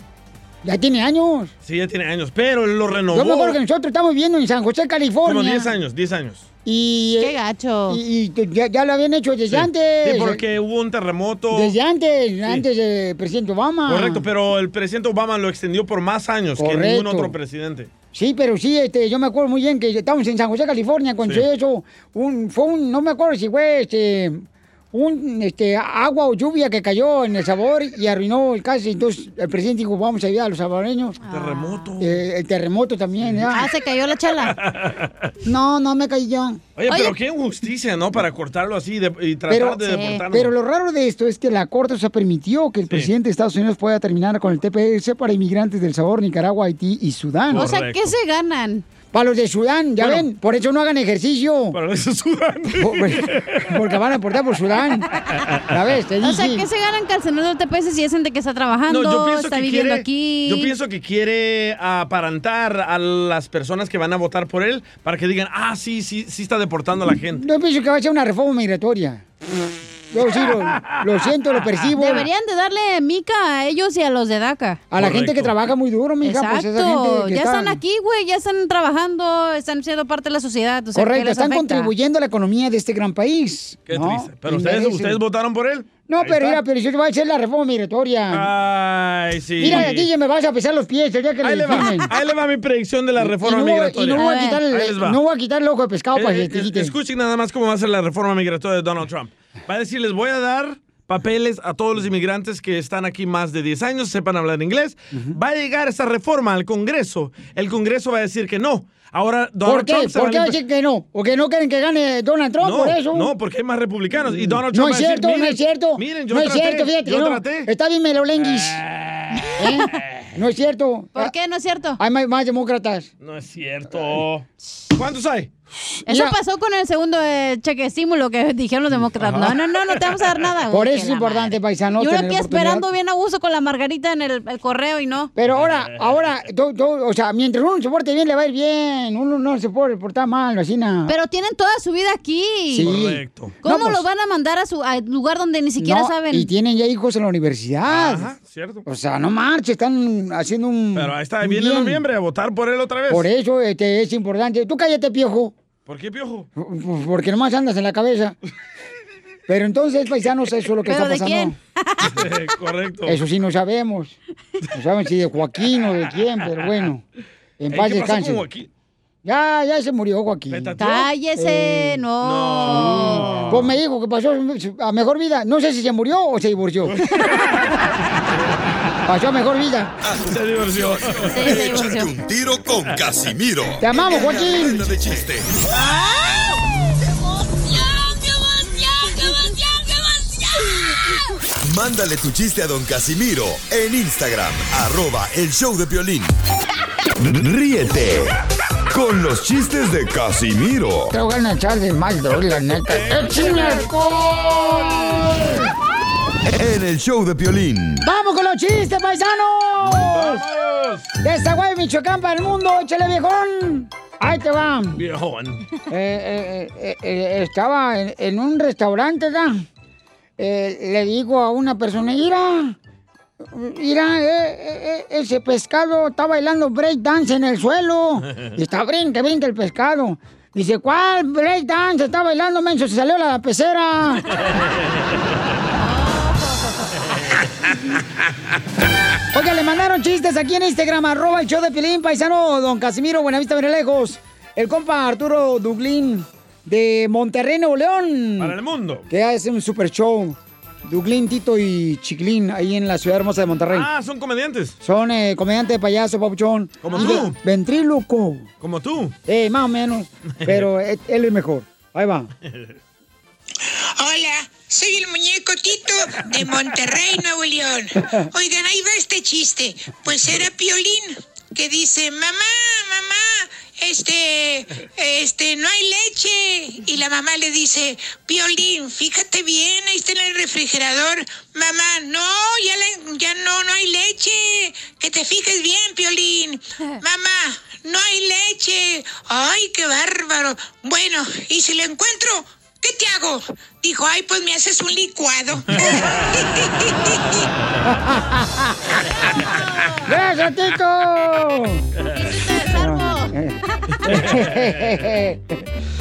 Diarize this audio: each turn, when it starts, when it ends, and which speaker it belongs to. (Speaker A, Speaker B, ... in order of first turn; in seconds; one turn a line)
Speaker A: 0.6-1.5
Speaker B: 1.6-3.6
Speaker A: 3.1-5.7
Speaker B: 5.2-6.5
Speaker A: 6.6-7.3
Speaker C: 7.2-8.0
Speaker A: 7.9-10.4
Speaker B: 9.5-11.8
Speaker A: 11.5-14.2
Speaker B: 13.9-17.9
Speaker A: 16.6-17.3
Speaker A: 18.1-31.2
Speaker C: 31.2-31.9
Speaker B: 31.3-32.2
Speaker A: 32.0-33.7
Speaker C: 33.5-34.5
Speaker B: 34.5-35.3
Speaker A: 35.4-36.6
Speaker B: 36.8-40.5
Speaker C: 36.9-37.1
Speaker A: 39.5-47.7
Speaker C: 39.9-40.2
Speaker B: 47.5-48.1
Speaker C: 47.5-48.8
Speaker A: 49.1-51.8
Speaker B: 50.0-50.3
Speaker B: 51.7-53.7
Speaker A: 52.8-55.0
Speaker A: 55.7-56.6
Speaker C: 56.2-60.7
Speaker B: 58.9-67.4
Speaker A: 67.4-69.2
Speaker A: 70.1-72.3
Speaker C: 72.0-74.8
Speaker A: 74.9-77.8
Speaker B: 75.0-75.5
Speaker C: 76.2-81.9
Speaker A: 80.9-85.2
Speaker B: 83.9-86.6
Speaker A: 86.1-88.5
Speaker B: 88.3-90.1
Speaker A: 89.6-92.1
Speaker B: 91.4-95.2
Speaker A: 93.2-96.9
Speaker C: 94.1-94.6
Speaker B: 96.1-110.6
Speaker A: 109.6-113.3
Speaker B: 112.6-117.7
Speaker A: 114.3-118.8
Speaker B: 118.4-119.4
Speaker A: 119.6-121.3
Speaker C: 121.1-122.0
Speaker A: 122.0-123.1
Speaker B: 123.2-125.5
Speaker A: 125.7-126.3
Speaker C: 126.1-135.3
Speaker B: 129.2-129.6
Speaker A: 130.7-132.8
Speaker A: 135.3-141.1
Speaker B: 135.5-136.3
Speaker C: 141.1-142.9
Speaker A: 142.7-144.0
Speaker B: 142.8-143.5
Speaker C: 143.6-146.5
Speaker A: 145.8-148.3
Speaker B: 147.8-148.8
Speaker A: 148.8-152.0
Speaker B: 150.9-153.3
Speaker A: 153.1-155.5
Speaker B: 155.8-156.5
Speaker A: 156.6-158.3
Speaker A: 159.5-161.5
Speaker C: 160.9-162.1
Speaker B: 162.0-163.2
Speaker A: 163.1-164.2
Speaker A: 164.7-167.0
Speaker A: 167.6-168.4
Speaker B: 167.7-168.7
Speaker A: 169.2-170.7
Speaker B: 170.5-171.1
Speaker C: 170.8-173.4
Speaker A: 171.3-172.0
Speaker B: 172.2-173.8
Speaker A: 172.6-177.0
Speaker B: 176.9-177.6
Speaker A: 179.1-179.9
Speaker D: 180.0-180.3
Speaker B: 180.2-181.6
Speaker D: 181.2-185.6
Speaker C: 181.3-182.1
Speaker A: 183.8-184.9
Speaker D: 191.6-196.3
Speaker D: 197.2-198.4
Speaker D: 198.9-201.1
Speaker A: 201.1-205.6
Speaker B: 202.9-205.5
Speaker D: 206.5-208.0
Speaker A: 208.0-210.4
Speaker B: 209.8-211.1
Speaker A: 211.2-215.0
Speaker B: 214.9-215.6
Speaker A: 215.9-219.6
Speaker A: 220.4-222.8
Speaker A: 223.4-234.2
Speaker C: 235.8-236.9
Speaker A: 239.3-248.5
Speaker B: 248.4-249.1
Speaker A: 249.1-253.9
Speaker B: 253.7-254.8
Speaker A: 254.8-258.5
Speaker B: 256.8-257.4
Speaker B: 258.6-259.1
Speaker A: 259.2-262.3
Speaker B: 260.4-260.7
Speaker E: 264.0-295.6
Speaker B: 295.7-296.2
Speaker A: 298.0-298.9
Speaker C: 299.5-300.0
Speaker A: 300.1-301.8
Speaker C: 302.1-303.3
Speaker A: 302.7-305.5
Speaker B: 304.1-304.6